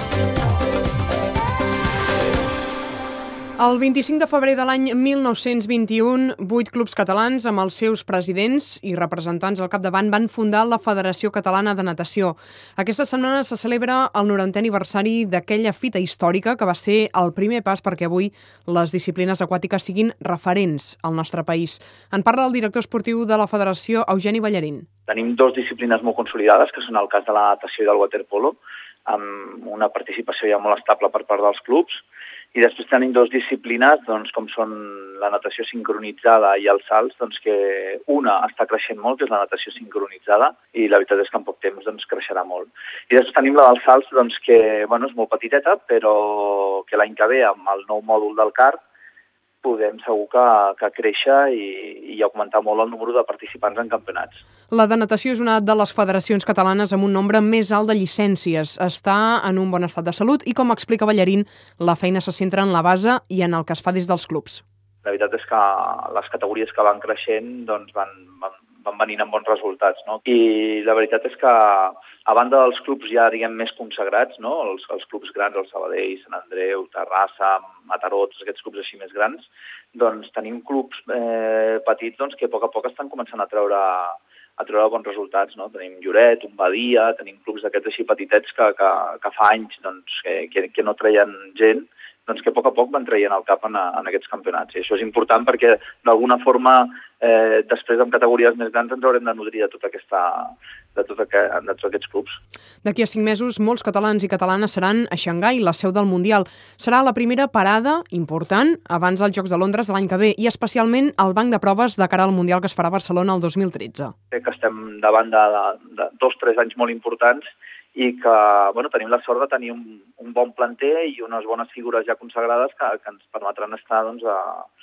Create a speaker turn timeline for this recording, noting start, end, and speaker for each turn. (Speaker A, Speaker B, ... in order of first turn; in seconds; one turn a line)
Speaker A: 3.6-24.9
Speaker B: 25.1-32.0
Speaker B: 32.5-48.8
Speaker B: 49.6-54.4
Speaker A: 54.7-64.6
Speaker B: 65.0-102.4
Speaker A: 102.8-114.1
Speaker B: 114.3-117.4
Speaker B: 118.0-124.7